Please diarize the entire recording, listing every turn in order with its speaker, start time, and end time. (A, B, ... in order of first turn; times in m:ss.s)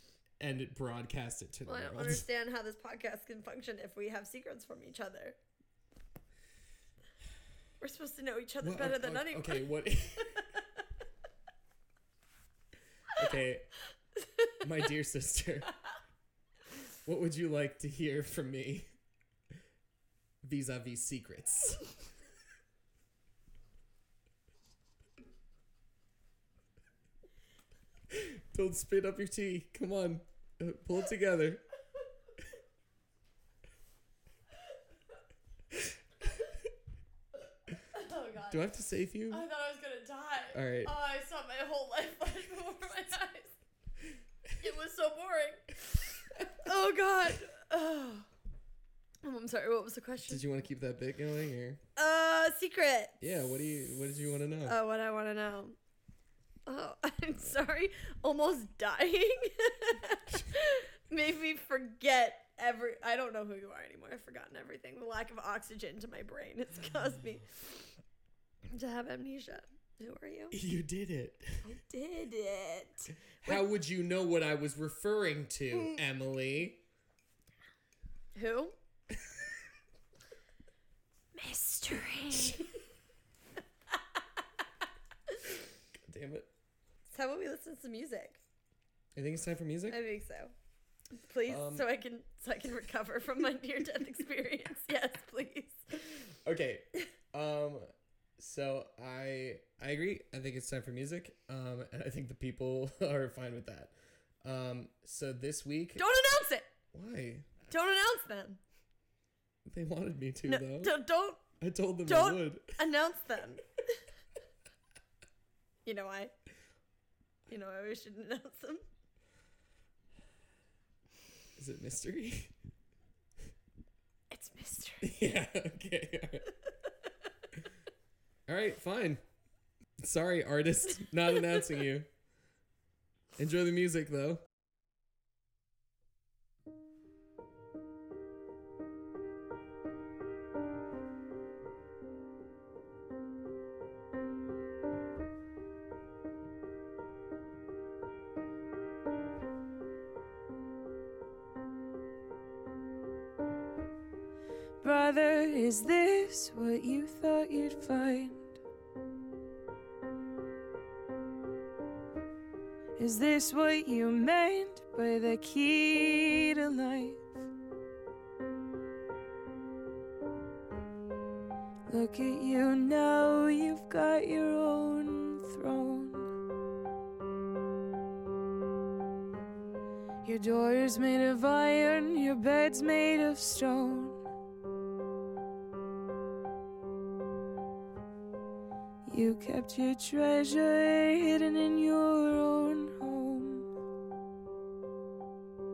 0:00.4-0:02.2 A
0:01.7-0:05.4 B
0:07.8-0:10.6 B
0:08.6-0:10.5 A
0:13.1-0:13.7 A
0:14.6-0:15.7 A
0:17.0-0:18.9 A
0:20.4-0:21.9 A
0:28.1-0:31.6 A
0:37.9-0:38.6 B
0:38.5-0:39.4 A
0:39.3-0:43.6 B
0:40.5-0:40.9 A
0:44.6-0:48.3 B
0:49.2-0:50.4 B
0:50.3-0:51.8 A
0:52.0-0:53.2 B
0:53.2-0:54.8 A
0:54.6-0:55.8 B
0:56.7-1:07.9 B
1:08.7-1:10.6 B
1:10.5-1:11.6 A
1:11.6-1:13.6 B
1:13.4-1:16.8 A
1:18.3-1:18.7 B
1:21.3-1:22.7 B
1:22.3-1:22.6 A
1:25.9-1:26.5 A
1:27.1-1:28.4 B
1:29.1-1:30.0 A
1:29.9-1:30.5 B
1:31.1-1:35.8 B
1:31.5-1:31.8 A
1:36.4-1:37.9 A
1:38.4-1:46.0 A
1:46.0-1:46.7 B
1:46.9-1:47.5 A
1:47.7-1:48.6 B
1:49.6-1:51.0 A
1:50.4-1:51.4 B
1:51.6-1:52.8 A
1:52.0-1:53.6 B
1:55.8-1:56.3 B
1:57.5-1:58.8 B
2:01.6-2:02.5 A
2:04.3-2:05.1 B
2:05.0-2:06.5 A
2:08.5-2:09.2 A
2:10.0-2:12.1 A
2:13.4-2:14.4 A
2:34.8-2:38.5 C
2:43.0-2:47.3 C
2:51.9-2:56.3 C
3:00.2-3:04.2 C
3:09.0-3:13.7 C